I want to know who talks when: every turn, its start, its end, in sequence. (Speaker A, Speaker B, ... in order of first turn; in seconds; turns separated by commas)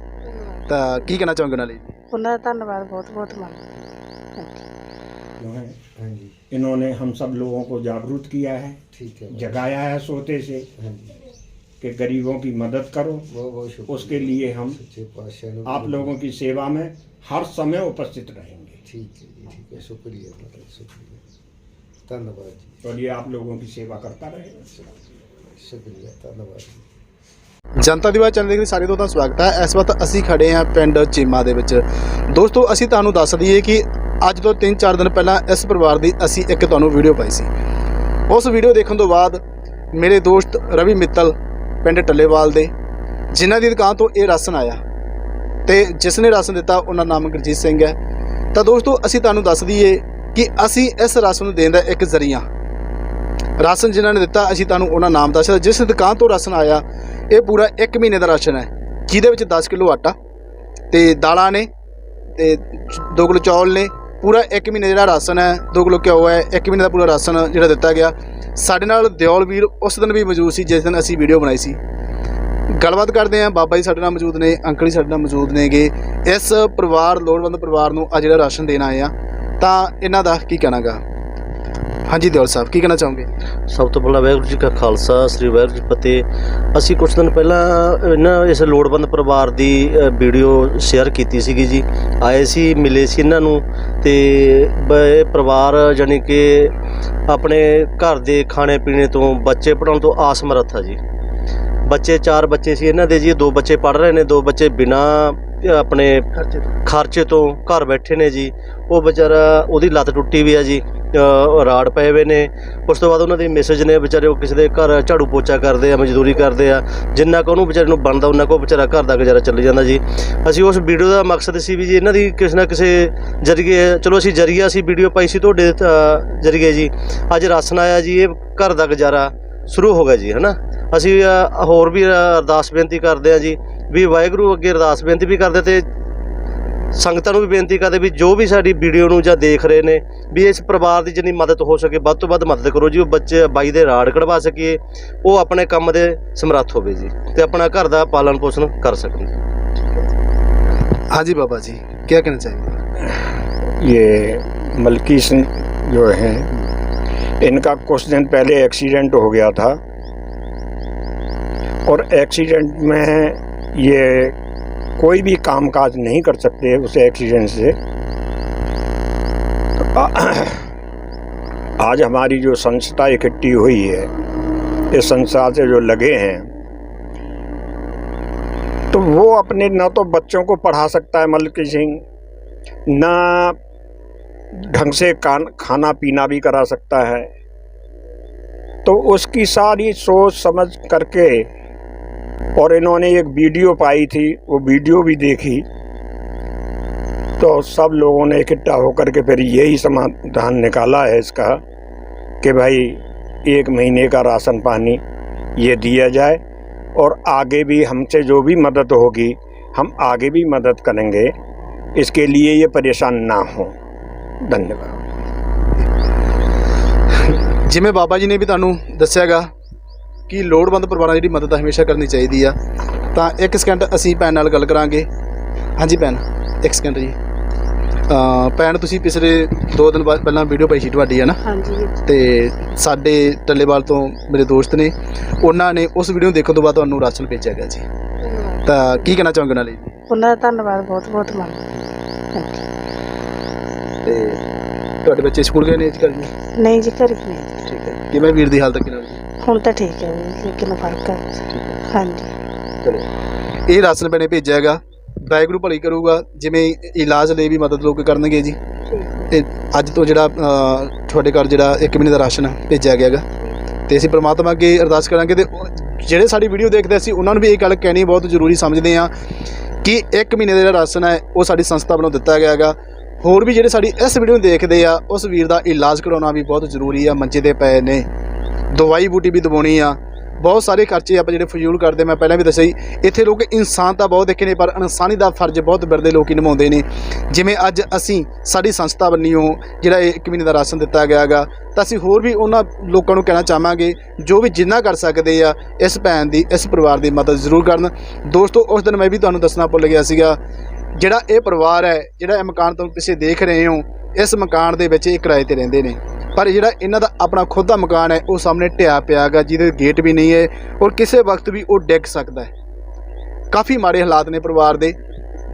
Speaker A: 0.2-0.7, Speaker B: 0.7-1.9, Speaker A: 2.1-3.7, Speaker A: 4.4-4.7, Speaker C: 5.4-5.8, Speaker D: 6.0-6.4, Speaker C: 6.5-8.8, Speaker D: 8.9-9.6, Speaker C: 9.3-10.7, Speaker D: 10.8-11.2, Speaker C: 11.8-13.3, Speaker D: 13.3-16.1, Speaker C: 13.9-14.8, Speaker C: 15.7-18.8, Speaker D: 18.9-21.2, Speaker D: 22.1-22.8, Speaker C: 22.8-24.8, Speaker D: 25.4-26.9, Speaker B: 27.8-37.5, Speaker B: 38.3-39.4, Speaker B: 39.9-42.7, Speaker B: 43.3-44.8, Speaker B: 45.7-48.0, Speaker B: 48.5-52.5, Speaker B: 53.6-60.1, Speaker B: 60.9-61.7, Speaker B: 62.4-71.8, Speaker B: 72.7-81.0, Speaker B: 82.1-83.3, Speaker E: 83.7-96.8, Speaker E: 97.3-101.0, Speaker E: 101.9-106.2, Speaker E: 106.8-135.9, Speaker E: 136.9-149.3, Speaker B: 151.1-152.8, Speaker C: 153.1-156.5, Speaker C: 157.4-159.8, Speaker C: 161.9-164.4, Speaker C: 165.0-167.8, Speaker C: 169.8-170.7, Speaker C: 171.8-174.1, Speaker C: 174.9-176.5, Speaker C: 178.9-182.0, Speaker C: 182.9-183.6, Speaker C: 184.5-187.3, Speaker C: 188.8-191.5, Speaker C: 192.6-195.7, Speaker C: 197.4-201.6, Speaker C: 202.4-205.0, Speaker C: 205.6-206.4, Speaker C: 207.0-211.3, Speaker C: 211.9-213.7, Speaker C: 214.4-215.0, Speaker B: 217.7-219.5, Speaker B: 220.3-222.6, Speaker B: 223.1-225.1, Speaker B: 225.8-227.2, Speaker B: 228.1-231.4, Speaker A: 231.4-232.0, Speaker B: 232.0-237.8, Speaker A: 238.2-238.7, Speaker B: 238.6-239.9, Speaker A: 240.1-242.7, Speaker B: 244.0-244.4, Speaker B: 245.0-246.3, Speaker A: 246.6-247.7, Speaker B: 247.7-249.2, Speaker A: 249.4-252.3, Speaker B: 251.5-251.8, Speaker B: 253.7-258.6, Speaker A: 258.9-259.3, Speaker B: 259.3-263.2, Speaker B: 263.9-269.1, Speaker B: 269.8-278.1, Speaker B: 278.7-300.4, Speaker B: 301.0-312.5, Speaker B: 313.5-315.0